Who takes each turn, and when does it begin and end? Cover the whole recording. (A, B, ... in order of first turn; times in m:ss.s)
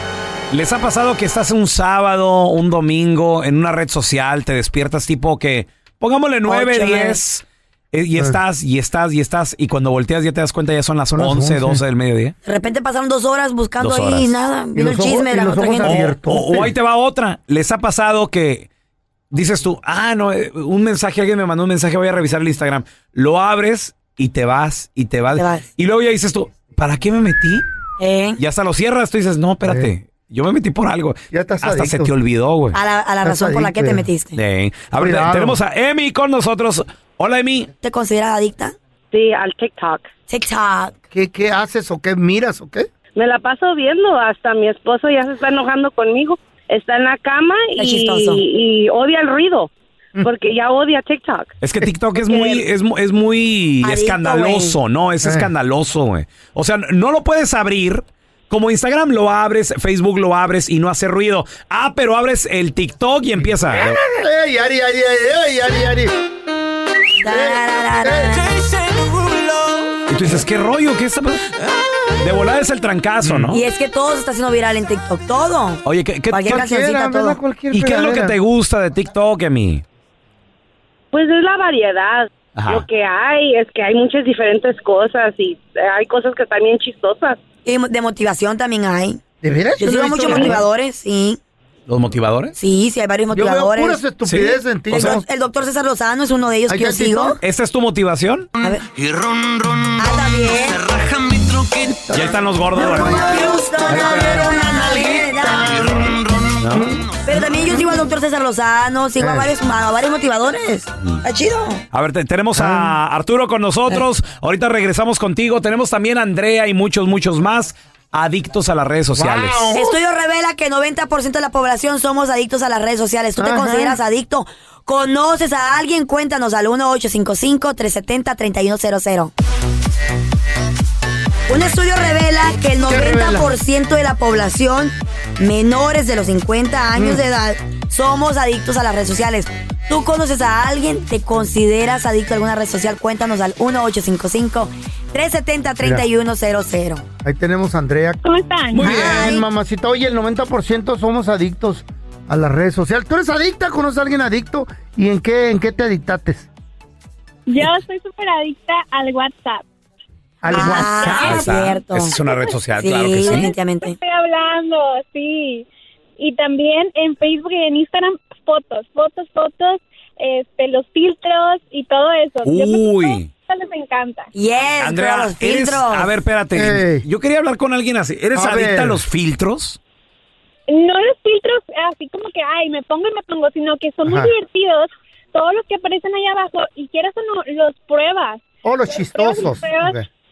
0:00.5-0:12.3 A
0:06.4-0:07.2 B
0:11.1-0:11.8 C
0:12.4-0:16.0 B
0:13.8-0:14.4 A
0:14.7-0:16.7 C
0:15.8-0:18.7 A
0:19.3-0:27.6 A
0:25.4-0:25.6 B
0:28.0-0:28.4 B
0:28.4-0:32.8 A
0:31.3-0:32.1 C
0:32.7-0:34.4 B
0:33.2-0:34.0 C
0:34.3-0:37.7 A
0:35.0-0:35.6 C
0:37.8-0:38.7 B
0:39.1-0:40.1 D
0:40.3-0:40.9 B
0:41.1-0:42.9 C
0:43.2-0:49.7 D
0:47.8-0:48.4 B
0:50.2-0:51.6 D
0:51.6-1:04.0 A
0:52.2-0:52.6 D
0:53.8-0:54.8 B
0:55.2-0:55.5 C
1:03.4-1:06.1 C
1:07.2-1:08.5 B
1:07.2-1:08.5 C
1:10.1-1:11.5 A
1:12.2-1:13.6 A
1:13.2-1:13.5 C
1:13.5-1:17.4 B
1:15.8-1:16.6 A
1:16.5-1:18.4 C
1:17.7-1:19.8 A
1:21.1-1:27.4 D
1:22.6-1:22.8 A
1:27.6-1:29.2 B
1:29.4-1:30.6 C
1:29.8-1:31.4 B
1:31.9-1:32.6 A
1:32.6-1:34.0 B
1:33.3-1:35.2 C
1:34.2-1:35.2 A
1:34.9-1:37.4 B
1:36.7-1:37.4 C
1:37.4-1:38.5 A
1:40.0-1:40.9 B
1:41.8-1:47.0 C
1:42.1-1:43.4 A
1:42.7-1:46.0 B
1:43.9-1:44.5 A
1:46.6-1:47.0 A
1:47.3-1:51.8 B
1:49.2-1:49.5 C
1:51.9-1:59.7 A
1:52.6-1:52.9 C
1:59.2-1:59.9 C
1:59.7-2:09.3 B
2:03.4-2:04.0 C
2:11.5-2:27.0 B
2:12.8-2:13.5 C
2:17.0-2:17.2 C
2:27.2-2:28.2 C
2:28.2-2:28.9 E
2:28.7-2:29.4 A
2:28.8-2:36.5 C
2:28.8-2:29.4 B
2:37.5-2:39.6 E
2:40.4-2:41.6 C
2:40.5-2:42.1 B
2:41.1-2:43.5 A
2:42.8-2:44.0 B
2:43.2-2:45.6 E
2:46.2-2:54.3 E
2:52.4-2:53.3 A
2:54.3-2:56.1 B
2:54.8-2:59.8 A
2:56.5-2:57.0 C
2:58.3-2:59.0 C
3:00.7-3:10.0 E
3:04.0-3:04.3 C
3:08.6-3:10.0 C